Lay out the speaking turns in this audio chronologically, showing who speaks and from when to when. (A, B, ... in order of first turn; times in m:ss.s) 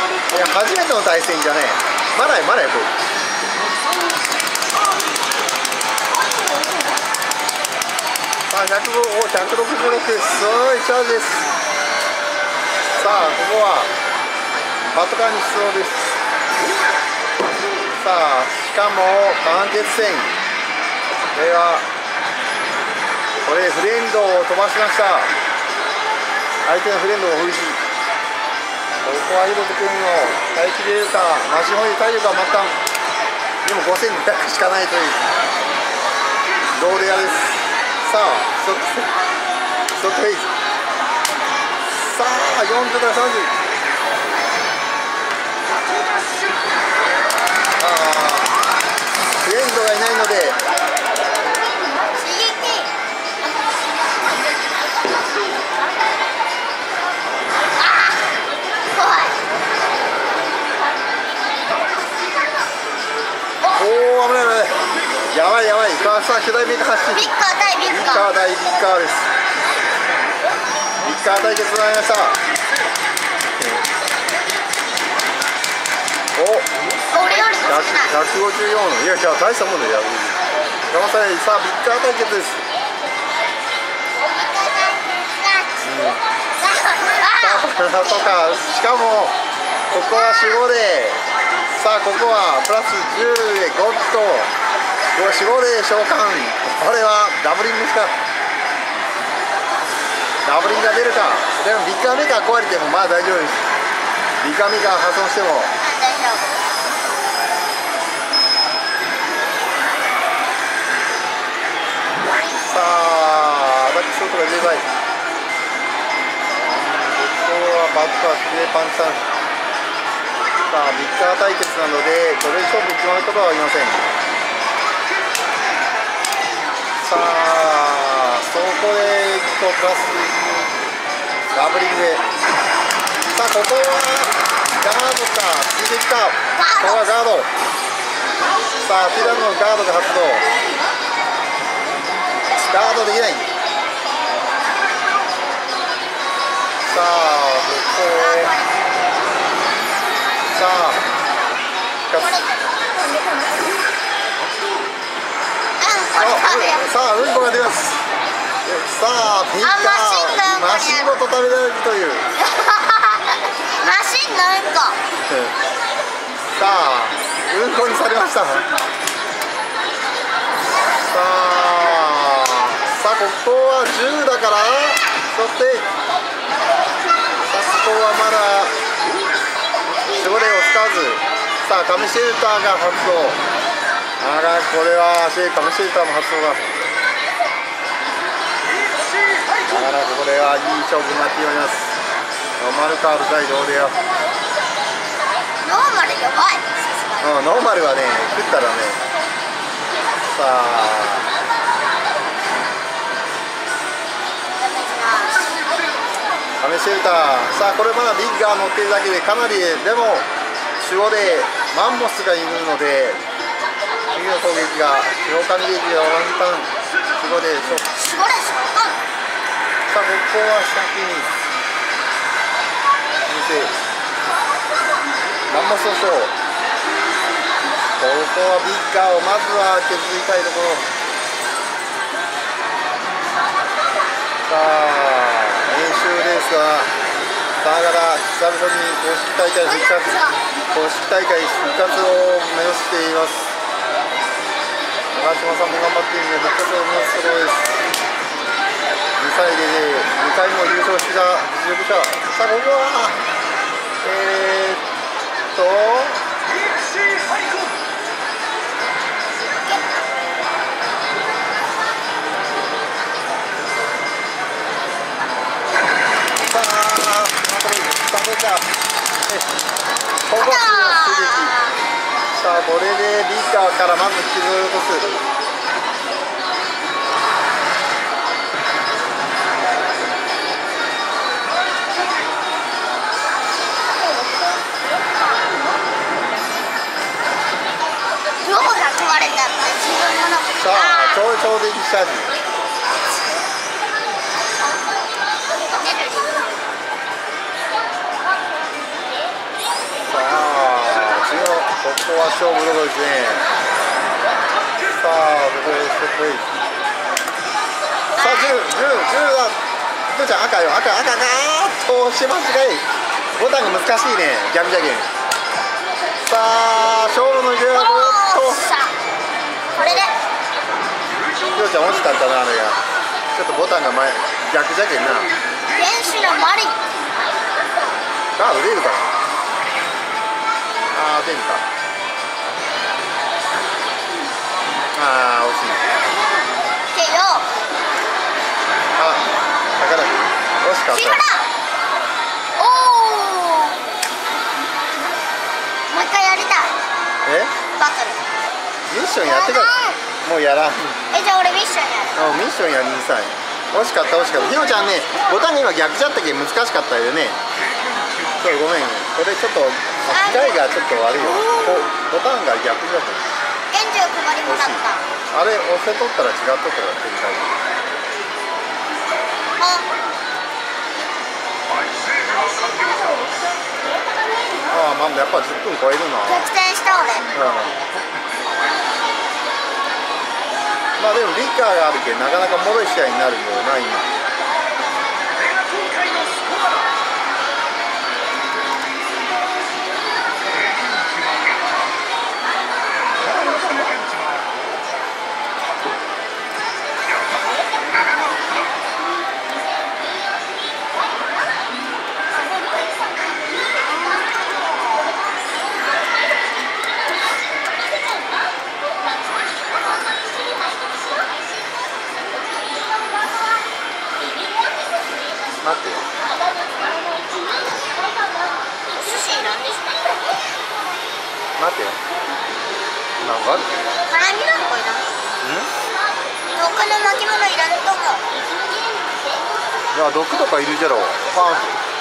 0:00.3-0:02.9 A
0:08.5-0:11.5 A
0:13.0-0:13.9 A
0:14.9-0:16.2 A
0:18.0-0:20.3 A
0:21.3-0:21.8 A
0:23.4-0:25.3 A
0:26.6-0:27.8 A
0:29.0-0:32.8 A
0:33.6-0:35.2 A
0:36.7-0:39.1 A
0:40.0-0:40.5 A
0:41.9-0:43.5 A
0:47.8-0:48.6 A
0:49.4-0:50.6 A
0:52.1-0:52.9 B
0:57.8-0:58.2 B
0:58.9-0:59.4 B
1:03.7-1:07.3 A
1:07.1-1:08.3 B
1:07.9-1:09.3 A
1:11.0-1:12.4 A
1:13.6-1:13.8 A
1:16.4-1:16.7 A
1:17.1-1:18.2 B
1:17.4-1:20.4 A
1:20.9-1:22.6 A
1:24.3-1:25.8 B
1:25.8-1:26.2 A
1:26.5-1:28.4 B
1:27.4-1:29.3 A
1:29.9-1:34.5 A
1:35.1-1:38.1 A
1:40.4-1:43.6 A
1:44.4-1:45.7 A
1:45.8-1:46.5 B
1:52.5-1:54.8 A
1:56.5-1:59.2 A
2:00.7-2:04.0 A
2:07.0-2:10.3 A
2:11.5-2:12.2 A
2:13.3-2:17.5 A
2:16.5-2:17.2 B
2:18.8-2:20.5 A
2:22.5-2:23.5 A
2:26.8-2:28.5 A
2:28.1-2:29.0 B
2:30.4-2:31.0 A
2:32.1-2:32.4 A
2:32.1-2:32.8 B
2:35.8-2:36.9 B
2:36.2-2:38.0 A
2:38.6-2:42.3 A
2:39.6-2:41.2 B
2:42.3-2:45.0 B
2:45.3-2:45.5 A
2:46.5-2:48.7 A
2:51.0-2:55.9 A
2:57.5-2:58.7 A
3:00.1-3:03.4 A
3:04.2-3:06.8 A
3:09.6-3:11.9 A
3:12.6-3:14.0 A
3:15.6-3:17.3 B
3:17.2-3:19.0 A
3:20.3-3:21.3 A
3:24.6-3:25.4 B
3:26.6-3:30.3 A
3:30.8-3:33.2 A
3:34.1-3:37.9 A
3:37.8-3:39.0 B
3:39.9-3:41.3 A
3:43.3-3:43.7 A
3:45.5-3:46.3 A
3:48.0-3:50.8 A
3:54.5-3:56.9 A
3:57.6-4:00.2 A
3:59.6-4:00.4 B
4:00.7-4:03.5 A
4:05.2-4:07.8 A
4:09.2-4:13.2 A
4:14.0-4:14.8 A
4:15.5-4:16.2 A
4:19.4-4:19.8 B
4:26.4-4:28.7 A
4:30.3-4:31.6 A
4:30.3-4:31.8 B
4:32.3-4:35.1 A
4:48.4-4:51.2 B
4:50.5-4:52.4 A
4:55.7-4:56.7 B
5:00.0-5:03.4 A
5:04.9-5:06.5 A
5:08.1-5:08.6 B
5:08.2-5:09.6 A
5:10.1-5:12.8 A
5:13.4-5:15.1 A
5:16.2-5:18.6 A
5:17.7-5:18.9 B
5:19.8-5:20.2 B
5:19.8-5:20.0 A
5:21.5-5:22.8 A
5:23.3-5:25.3 A
5:25.7-5:26.8 B
5:28.4-5:29.1 A
5:30.9-5:31.6 A
5:34.9-5:35.9 A
5:36.9-5:37.5 B
5:39.0-5:41.2 A
5:40.9-5:41.5 B
5:42.6-5:43.8 B
5:45.9-5:46.7 B
5:47.2-5:47.5 A
5:47.7-5:48.2 B
5:48.9-5:51.0 A
5:49.2-5:50.0 B
5:51.1-5:52.2 B
5:52.1-5:57.4 A
5:58.4-6:03.3 A
6:00.1-6:01.9 B
6:03.7-6:05.0 B
6:04.4-6:07.5 A
6:09.6-6:09.9 B
6:14.7-6:16.5 A
6:16.2-6:17.3 B
6:17.3-6:17.8 A
6:21.0-6:24.1 A
6:55.6-6:56.0 A
6:58.9-7:00.0 B
7:01.6-7:02.0 A
7:03.2-7:03.8 A
7:04.1-7:05.1 B
7:05.4-7:05.7 A
7:06.5-7:08.2 B
7:09.9-7:11.7 A